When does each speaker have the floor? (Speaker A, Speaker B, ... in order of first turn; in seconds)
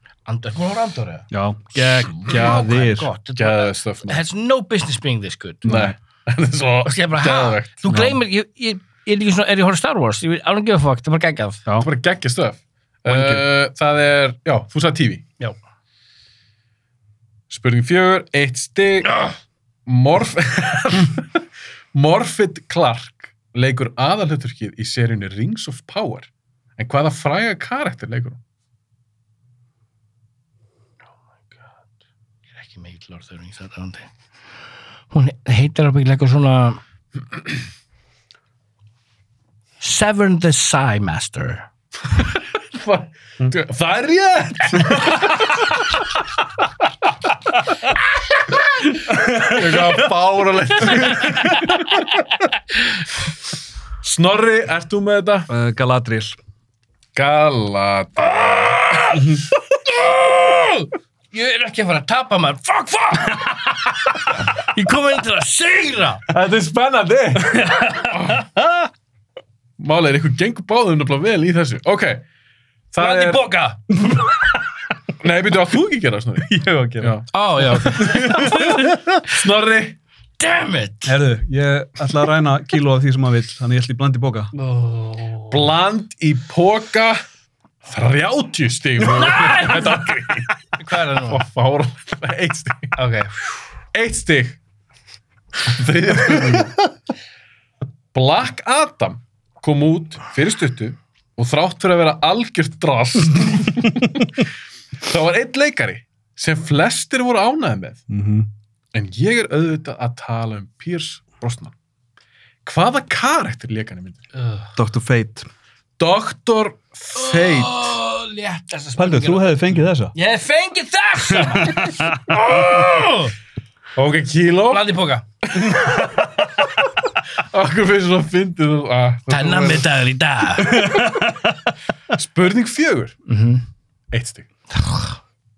Speaker A: 0.3-1.3, 2.1-5.7, 6.8-11.6, 19.1-19.3, 32.5-34.1, 35.1-36.8, 39.8-41.7, 51.2-51.5, 58.4-66.2, 73.0-73.8, 77.3-79.0, 80.4-81.2, 84.5-85.7, 89.0-90.2, 90.8-91.5, 93.0-93.3, 114.3-114.7, 117.2-123.3, 124.7-125.2, 129.3-130.8, 133.3-133.7, 134.7-135.2
Speaker B: 1.3-3.1, 5.6-6.0, 7.9-8.2, 13.1-13.4, 49.1-49.8, 55.5-56.4, 68.6-68.8, 76.4-77.2, 77.8-79.2, 81.0-84.5, 108.1-108.5, 114.8-115.5, 119.0-120.1, 121.3-122.6, 125.8-126.3, 130.6-131.6
Speaker C: 2.2-2.6, 3.4-4.2, 5.7-7.8, 11.8-15.2, 17.5-19.2, 19.9-21.4, 21.9-28.4, 42.7-45.8, 49.4-52.0, 54.0-55.5, 57.1-58.9, 66.3-68.5, 69.8-72.2, 72.9-73.4, 75.2-77.3, 77.9-80.0, 85.5-87.2, 87.8-90.5, 91.2-93.0, 93.9-94.6, 95.6-96.8, 98.1-104.5, 105.0-108.0, 108.9-111.8, 112.7-114.2, 116.0-118.0, 124.0-124.8, 125.5-126.3, 127.3-129.9, 130.7-131.3, 132.1-133.2, 134.1-134.5